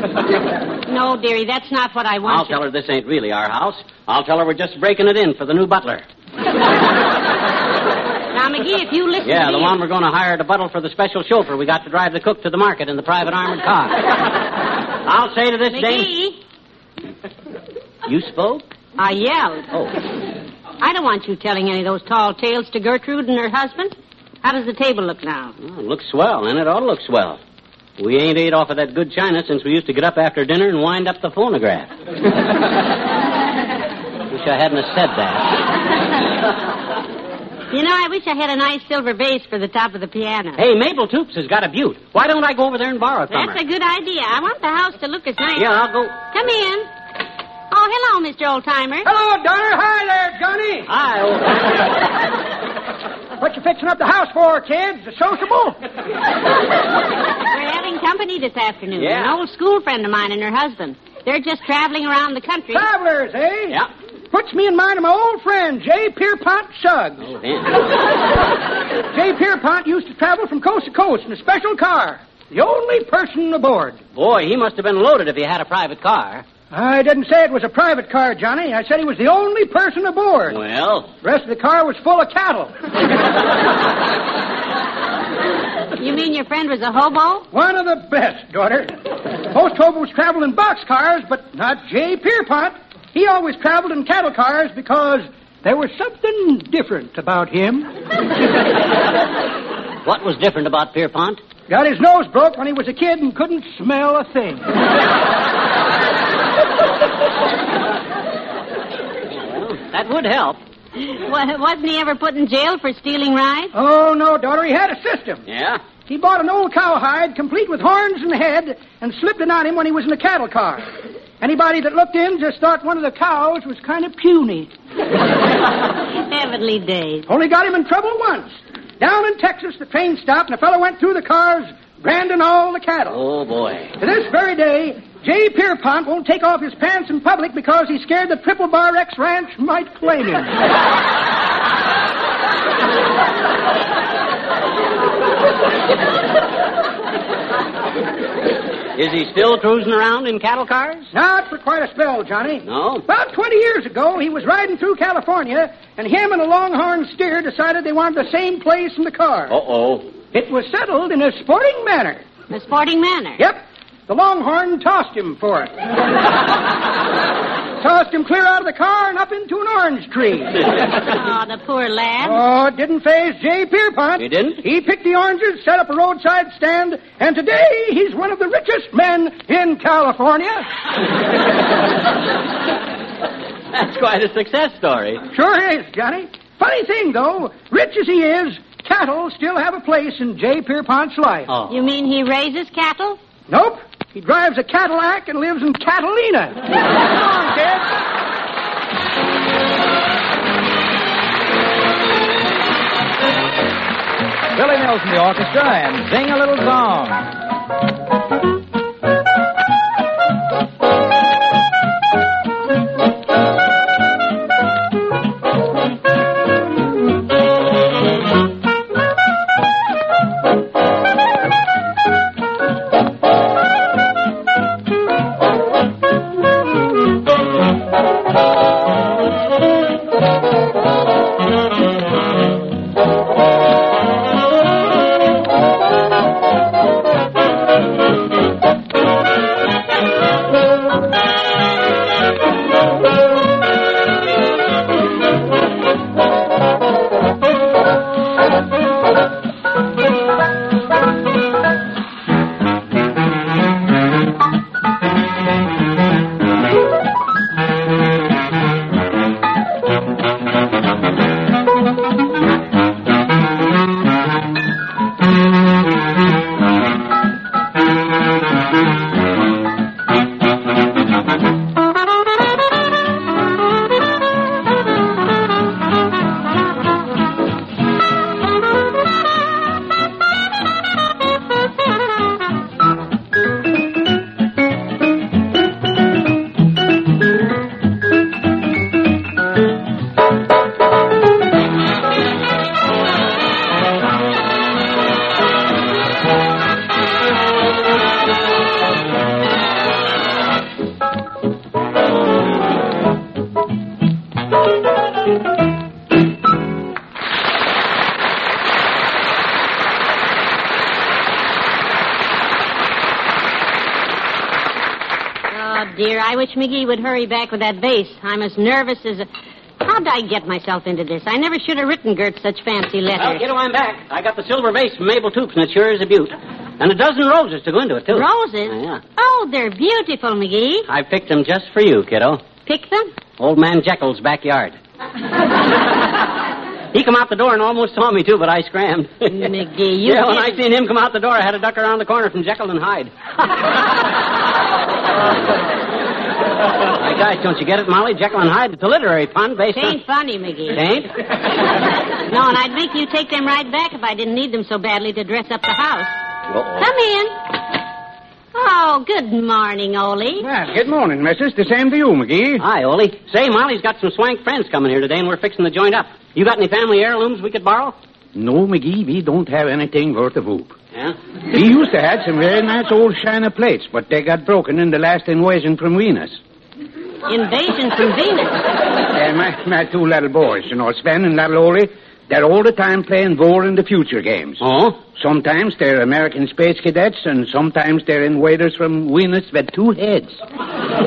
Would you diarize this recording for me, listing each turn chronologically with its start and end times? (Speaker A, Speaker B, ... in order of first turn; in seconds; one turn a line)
Speaker A: 0.8-2.6
Speaker B: 2.2-6.0
Speaker A: 8.3-9.8
Speaker B: 9.2-14.3
Speaker B: 15.0-16.1
Speaker A: 15.7-16.4
Speaker B: 18.1-18.7
Speaker A: 19.0-19.7
Speaker A: 20.8-25.5
Speaker B: 25.6-27.4
Speaker B: 28.0-31.9
Speaker B: 34.3-35.5
Speaker A: 37.7-40.6
Speaker B: 40.6-43.6
Speaker A: 43.3-46.9
Speaker B: 45.6-46.2
Speaker A: 47.7-49.1
Speaker C: 49.0-50.9
Speaker B: 50.9-51.8
Speaker C: 53.4-55.8
Speaker A: 57.5-62.8
Speaker B: 59.0-59.3
Speaker C: 62.7-63.8
Speaker C: 64.3-67.3
Speaker B: 67.2-67.7
Speaker C: 69.1-74.0
Speaker B: 74.1-76.4
Speaker C: 76.7-80.6
Speaker B: 80.5-81.1
Speaker C: 81.2-82.7
Speaker A: 86.0-87.5
Speaker C: 87.5-97.9
Speaker B: 100.0-101.4
Speaker C: 101.7-104.7
Speaker B: 109.3-110.6
Speaker A: 111.0-113.7
Speaker C: 113.7-115.4
Speaker B: 115.5-115.8
Speaker C: 116.1-120.8
Speaker C: 121.4-124.7
Speaker A: 126.2-127.3
Speaker C: 127.3-133.2
Speaker B: 133.1-133.9
Speaker C: 134.0-140.6
Speaker B: 149.0-151.1
Speaker C: 151.1-159.5
Speaker B: 152.7-153.1
Speaker B: 159.5-160.1
Speaker C: 160.3-162.2
Speaker A: 162.5-163.4
Speaker C: 163.4-165.7
Speaker C: 167.8-170.7
Speaker A: 171.0-172.4
Speaker C: 172.2-180.7
Speaker B: 174.2-174.6
Speaker B: 183.7-185.2
Speaker C: 185.3-191.5
Speaker B: 191.5-191.7
Speaker A: 191.7-193.2
Speaker C: 193.5-197.9
Speaker D: 204.5-207.3
Speaker A: 315.5-319.3
Speaker A: 319.8-323.4
Speaker B: 323.1-329.0
Speaker A: 328.1-330.9
Speaker B: 330.9-332.4
Speaker A: 332.6-333.1
Speaker B: 333.4-334.8
Speaker B: 336.9-343.1
Speaker A: 339.3-340.6
Speaker B: 346.9-350.0
Speaker A: 349.7-350.8
Speaker B: 350.7-351.1
Speaker A: 352.3-356.2
Speaker B: 356.5-356.8
Speaker A: 356.8-357.3
Speaker A: 358.5-360.5
Speaker E: 360.4-362.6
Speaker B: 362.6-368.0
Speaker E: 368.4-370.7
Speaker E: 371.5-376.4
Speaker A: 377.3-378.6
Speaker E: 379.1-384.6
Speaker B: 384.6-385.0
Speaker E: 385.1-390.4